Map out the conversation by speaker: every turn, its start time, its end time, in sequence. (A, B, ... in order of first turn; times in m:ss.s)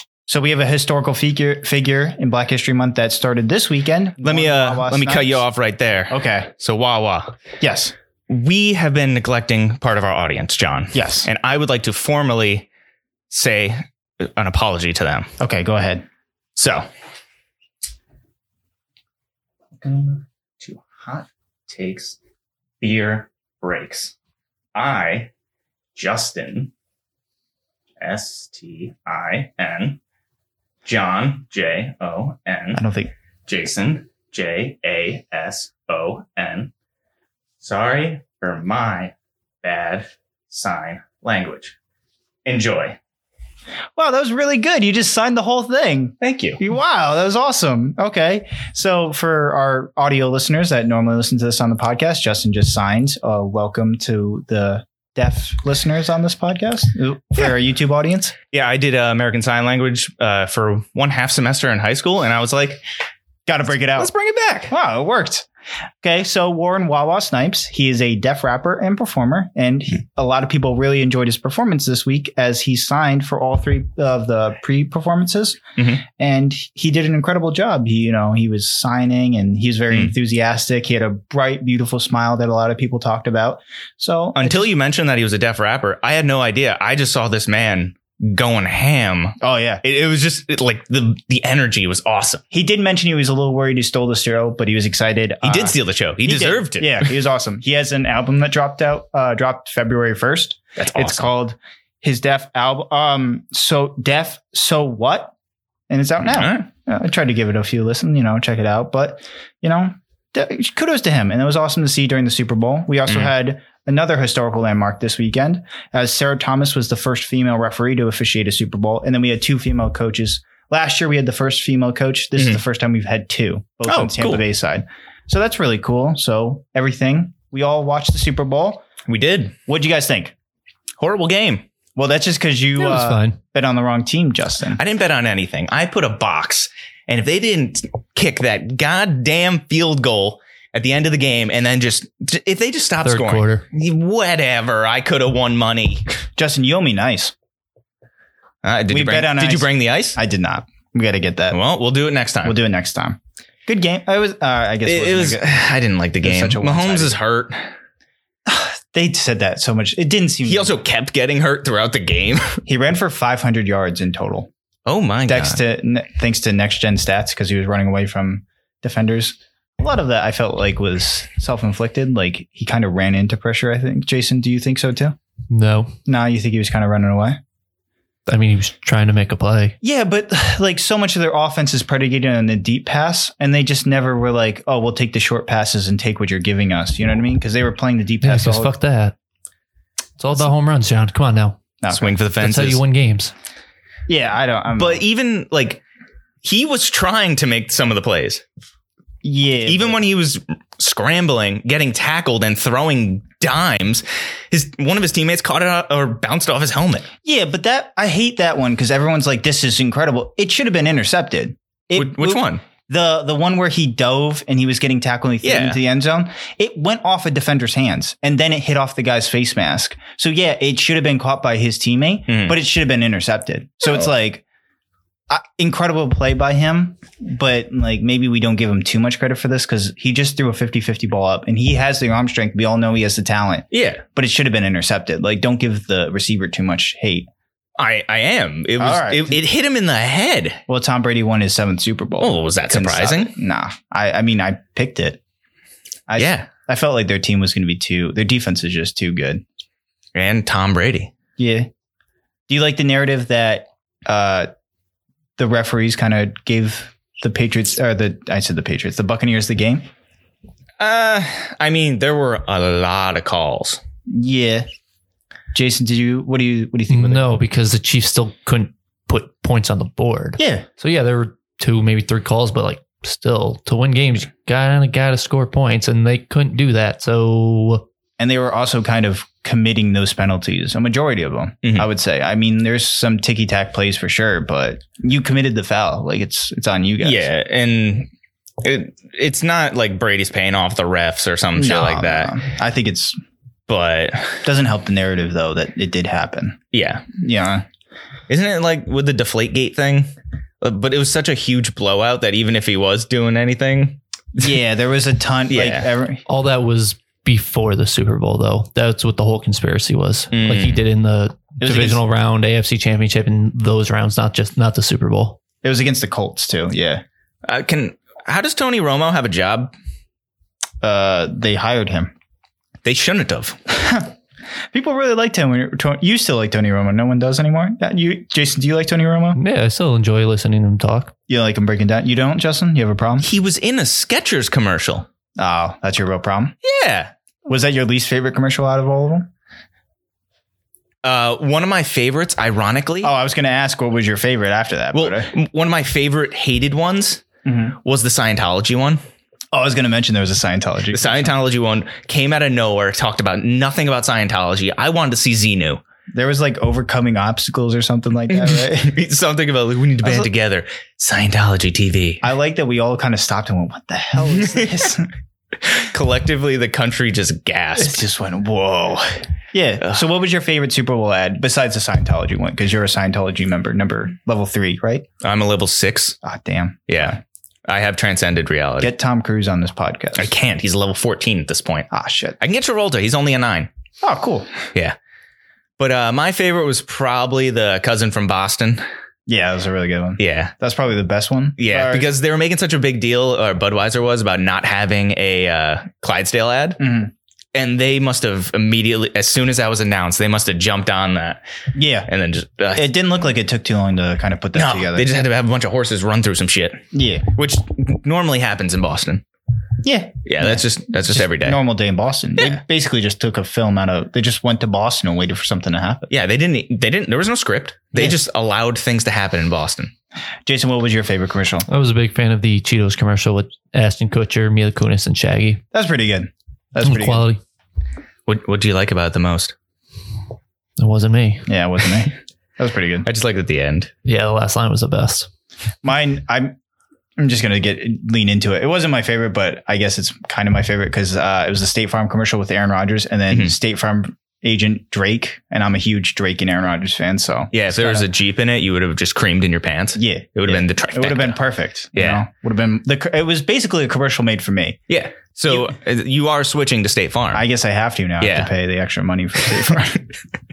0:00.3-0:05.4 A
0:04.2-0:07.4 B
0:06.1-0:06.5 A
0:07.6-0:07.9 A
0:08.3-0:12.7 B
0:10.9-0:11.3 A
0:13.3-0:15.3 B
0:15.4-0:16.0 A
0:16.6-0:16.8 B
0:19.8-0:22.2 B
0:22.8-0:24.2 B
0:24.8-0:25.3 B
0:26.0-0:26.7 B
0:28.0-0:30.0 B
0:30.8-0:32.8 B
0:32.7-0:33.1 A
0:33.5-0:36.7 B
0:37.6-0:41.8 B
0:42.4-0:43.0 B
0:44.0-0:58.4 A
0:46.2-0:46.6 B
0:58.5-1:02.8 B
1:03.5-1:04.1 A
1:04.0-1:04.7 B
1:04.7-1:05.5 A
1:06.0-1:24.7 A
1:24.4-1:32.4 B
1:29.4-1:29.8 A
1:32.5-1:45.3 A
1:35.4-1:37.1 B
1:40.8-1:41.3 B
1:45.9-2:08.8 A
1:46.3-1:46.6 B
2:03.9-2:04.4 B
2:09.1-2:09.6 B
2:09.7-2:10.3 A
2:11.0-2:11.6 B
2:12.0-2:14.8 A
2:12.8-2:13.4 C
2:14.8-2:26.2 B
2:23.0-2:23.6 C
2:26.4-2:27.3 A
2:28.6-2:30.2 B
2:28.9-2:31.6 A
2:31.5-2:32.6 B
2:32.4-2:35.5 A
2:34.8-2:37.7 B
2:36.2-2:37.2 A
2:38.5-2:40.8 A
2:40.4-2:42.6 B
2:42.7-2:44.5 A
2:44.9-2:45.6 B
2:45.3-2:55.2 A
2:55.5-2:56.0 C
2:56.1-2:57.4 A
2:58.3-2:59.8 C
2:59.8-3:08.8 A
3:08.2-3:09.2 C
3:10.2-3:11.6 C
3:11.8-3:12.2 A
3:11.9-3:12.8 B
3:12.4-3:13.3 C
3:14.1-3:15.0 A
3:14.8-3:15.8 B
3:16.4-3:18.4 B
3:19.2-3:20.0 A
3:19.6-3:27.1 B
3:27.2-3:44.4 A
3:32.0-3:32.6 B
3:35.4-3:35.8 B
3:42.3-3:42.6 B
3:45.3-3:57.3 A
3:53.7-3:54.0 B
3:57.8-4:00.6 B
3:58.8-3:59.4 A
4:00.7-4:05.2 A
4:02.2-4:03.3 B
4:06.1-4:09.4 A
4:06.2-4:06.5 B
4:10.2-4:11.1 B
4:11.4-4:11.7 A
4:12.5-4:14.5 A
4:15.4-4:19.8 A
4:20.8-4:23.8 B
4:24.1-4:24.7 A
4:25.5-4:27.4 A
4:26.9-4:37.8 C
4:30.4-4:30.7 A
4:38.2-4:47.3 A
4:47.0-4:48.1 B
4:48.6-4:52.4 B
4:51.6-4:53.2 A
4:53.7-4:54.4 B
4:54.4-4:56.6 A
4:56.7-4:57.1 B
4:57.2-4:57.6 A
4:58.3-5:04.4 B
5:04.4-5:06.2 A
5:05.5-5:05.9 B
5:06.3-5:15.4 C
5:10.3-5:10.8 B
5:11.6-5:12.0 A
5:15.6-5:17.0 A
5:17.4-5:19.7 B
5:20.8-5:22.1 A
5:22.8-5:23.6 B
5:23.7-5:24.1 A
5:24.7-5:29.4 A
5:29.4-5:31.1 C
5:31.3-5:33.3 A
5:33.2-5:35.1 B
5:35.4-5:36.6 A
5:36.6-5:37.1 B
5:37.5-5:39.3 A
5:41.0-5:43.1 B
5:43.0-5:45.3 A
5:44.9-5:47.2 B
5:47.4-5:47.8 A
5:47.8-5:49.0 B
5:49.5-5:51.3 A
5:50.9-5:55.8 B
5:56.1-5:59.0 A
5:58.3-6:02.2 B
6:00.0-6:00.3 A
6:02.2-6:05.1 A
6:04.2-6:04.9 B
6:05.8-6:08.1 B
6:07.8-6:15.1 A
6:15.2-6:16.2 B
6:16.2-6:17.2 A
6:16.9-6:18.9 B
6:18.8-6:20.3 A
6:20.2-6:21.9 B
6:21.9-6:22.4 A
6:22.4-6:23.7 B
6:24.0-6:24.5 A
6:25.8-6:28.8 B
6:29.3-6:32.1 A
6:30.2-6:30.5 B
6:31.6-6:36.8 B
6:36.8-6:37.1 A
6:37.5-6:41.4 B
6:41.8-6:42.1 A
6:42.1-6:42.9 B
6:42.7-6:45.1 A
6:44.5-6:49.2 B
6:46.9-6:47.3 A
6:49.8-6:56.0 A
6:50.2-6:51.6 B
6:56.1-6:59.9 B
7:00.5-7:01.7 A
7:01.7-7:05.6 C
7:05.7-7:07.3 A
7:06.8-7:07.4 C
7:08.3-7:09.6 B
7:10.8-7:11.5 C
7:11.5-7:13.1 A
7:13.0-7:13.9 B
7:14.0-7:15.3 C
7:15.8-7:16.6 A
7:17.2-7:28.1 A
7:27.5-7:31.4 B
7:30.0-7:34.8 A
7:31.9-7:32.2 B
7:34.9-7:37.4 B
7:37.3-7:40.1 A
7:38.2-7:38.5 B